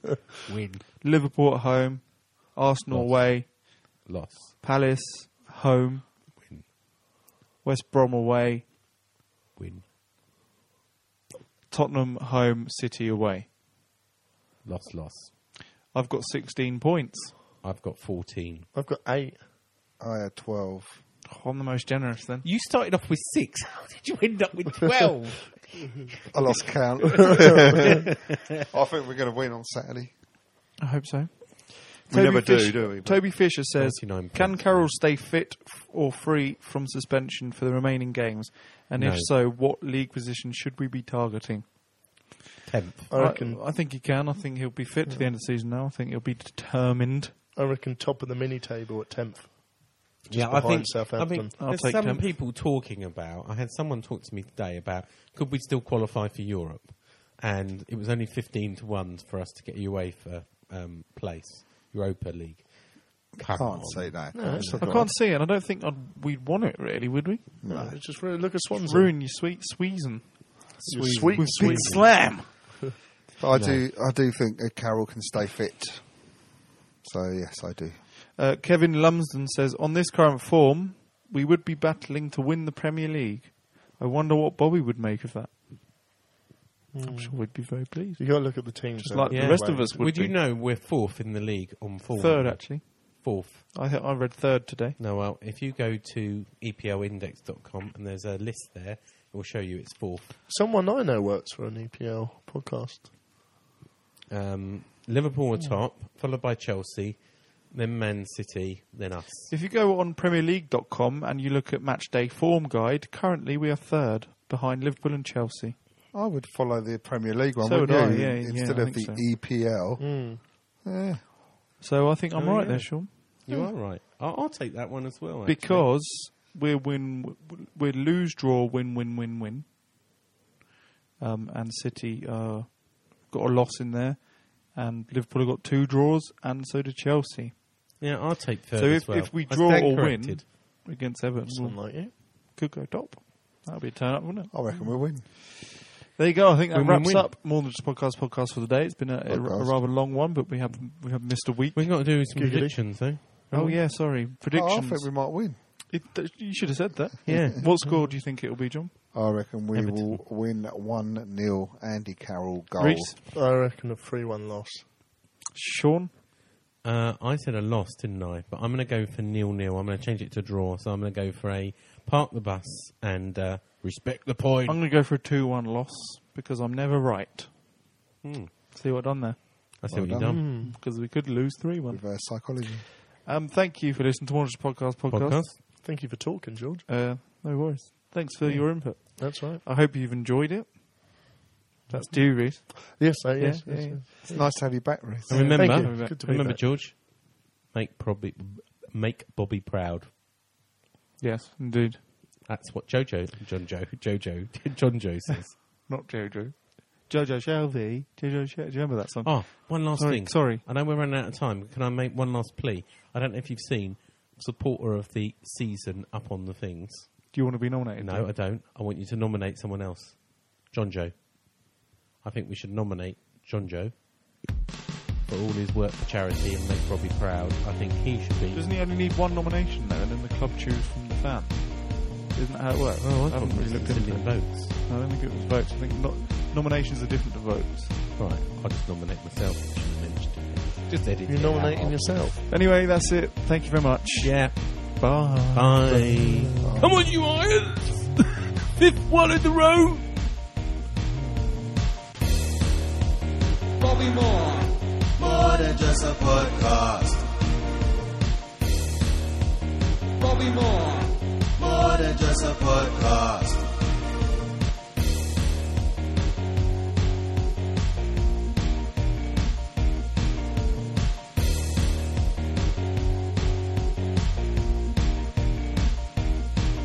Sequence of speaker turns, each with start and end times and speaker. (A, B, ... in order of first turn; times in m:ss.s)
0:00.4-0:00.8 A
0:01.0-0:04.0 B
0:02.9-0:04.6 A
0:04.6-0:06.1 B
0:06.4-0:06.7 A
0:07.6-0:08.7 B
0:09.6-0:09.8 A
0:11.7-0:13.5 B
0:14.6-0:15.3 A
0:15.9-0:17.4 B
0:17.6-0:18.7 A
0:18.7-0:19.4 C
0:20.0-0:21.0 D
0:21.2-0:22.4 B
0:22.4-0:27.3 A
0:26.3-0:30.1 D
0:30.8-0:41.7 B
0:32.1-0:33.4 D
0:33.7-0:34.9 A
0:39.0-0:39.3 A
0:42.6-0:43.1 A
0:43.1-0:43.6 C
0:43.1-0:47.4 B
0:47.5-0:51.5 C
0:50.3-1:04.8 A
0:51.6-0:52.3 B
1:03.4-1:05.1 D
1:04.3-1:05.0 C
1:04.8-1:07.8 B
1:07.6-1:08.0 D
1:07.6-1:09.1 C
1:08.4-1:12.5 B
1:10.9-1:12.1 C
1:11.0-1:12.0 D
1:13.4-1:16.5 D
1:13.5-1:13.9 A
1:17.0-1:18.0 D
1:18.4-1:25.6 B
1:26.9-1:30.0 C
1:27.0-1:30.4 B
1:29.3-1:33.7 A
1:32.2-1:35.0 B
1:35.0-1:40.3 A
1:40.5-1:43.1 C
1:44.3-1:49.5 A
1:49.5-1:55.8 B
1:56.1-2:01.2 D
1:57.6-1:59.2 B
2:00.0-2:00.4 C
2:01.8-2:03.1 B
2:02.3-2:05.9 A
2:05.4-2:09.7 B
2:11.2-2:18.0 B
2:18.0-2:20.5 A
2:18.8-2:25.6 B
2:21.5-2:22.1 C
2:24.5-2:25.3 D
2:26.1-2:31.8 B
2:26.7-2:27.3 A
2:29.2-2:29.8 D
2:30.7-2:33.8 A
2:32.2-2:33.0 C
2:33.5-2:38.9 B
2:34.5-2:35.6 D
2:37.2-2:37.6 A
2:39.1-2:43.2 D
2:39.7-2:40.2 A
2:42.8-2:43.2 B
2:43.3-2:44.9 C
2:45.5-2:46.1 B
2:46.8-2:54.8 A
2:54.7-2:57.7 B
2:58.2-2:58.5 A
2:58.7-2:59.8 B
2:59.8-3:00.4 A
2:59.9-3:00.5 D
3:00.3-3:00.7 C
3:00.6-3:02.6 B
3:01.9-3:02.8 D
3:03.2-3:05.5 B
3:05.1-3:05.6 A
3:05.6-3:06.9 C
3:06.9-3:14.3 B
3:08.4-3:09.6 C
3:11.9-3:16.7 C
3:14.3-3:15.7 D
3:15.3-3:16.2 B
3:15.3-3:20.1 A
3:21.2-3:22.0 B
3:22.4-3:25.6 A
3:25.9-3:30.6 B
3:29.2-3:37.4 A
3:37.3-3:38.3 B
3:38.0-3:44.0 A
3:45.2-3:48.7 A
3:48.5-3:58.0 B
3:53.0-3:54.8 A
3:58.2-4:02.3 A
4:01.2-4:02.4 C
4:02.5-4:06.2 B
4:04.2-4:08.2 A
4:06.2-4:06.7 C
4:08.8-4:10.1 A
4:10.9-4:11.6 C
4:13.8-4:17.3 E
4:20.2-4:23.6 E